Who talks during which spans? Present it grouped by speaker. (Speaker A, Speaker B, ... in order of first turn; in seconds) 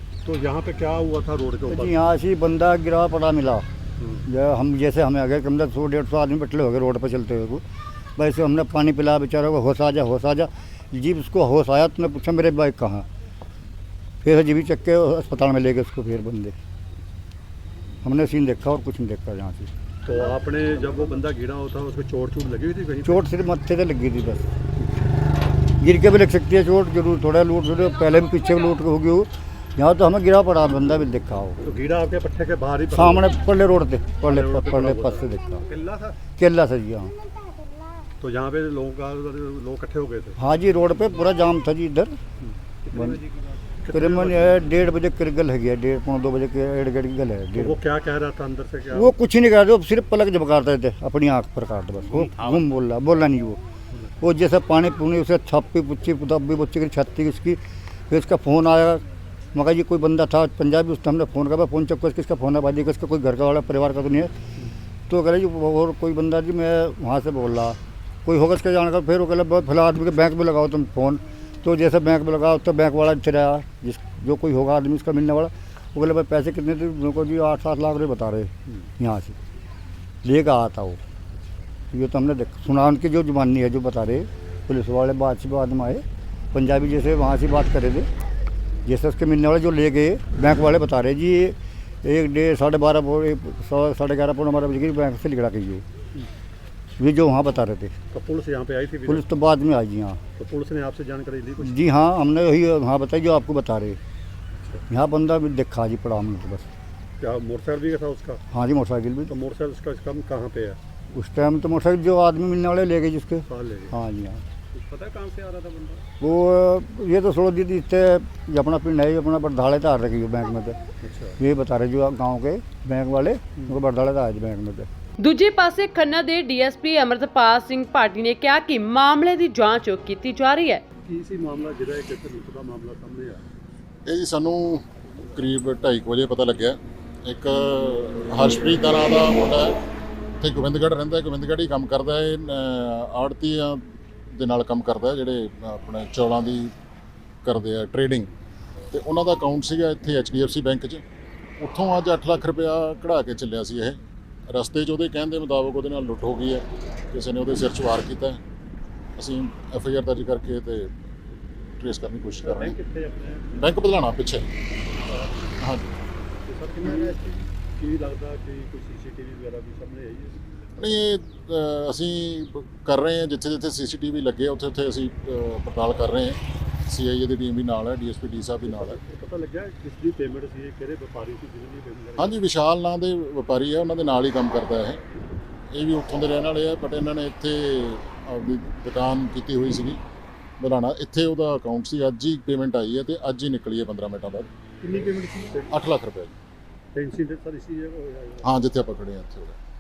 Speaker A: 0.2-2.0, 4.0-4.2, 20.0-23.2, 31.6-33.3, 34.2-36.2, 38.2-40.4, 42.4-44.6, 47.5-49.1, 98.1-99.2, 100.3-101.8, 104.6-104.8, 107.2-108.4, 109.3-110.8, 113.5-113.9, 114.7-116.0, 121.0-121.4, 131.0-133.4, 162.4-163.6, 165.0-165.5, 166.5-170.6, 178.7-182.4, 194.8-195.8, 196.9-198.4
Speaker B: 1.7-3.7, 4.2-7.6, 8.2-13.1, 14.2-16.6, 18.0-19.7, 23.0-24.5, 25.8-31.6, 32.9-35.6, 36.4-37.1, 40.4-42.2, 42.9-43.2, 43.9-47.8, 48.9-53.6, 54.2-59.0, 59.5-64.3, 65.1-79.4, 80.2-81.0, 81.9-88.1, 88.8-95.8, 97.0-98.0, 99.1-100.2, 101.6-104.0, 104.9-106.7, 108.5-109.3, 111.1-114.4, 116.2-120.8, 121.4-124.9
Speaker C: 125.2-130.8
Speaker D: 134.1-139.8, 140.4-146.7, 147.4-148.3, 148.9-151.0, 151.6-158.4, 159.2-160.9, 161.8-162.8, 163.5-164.5, 165.6-166.0, 170.8-179.0, 182.2-185.0, 185.7-190.0, 190.6-194.5, 195.7-196.3, 198.4-199.6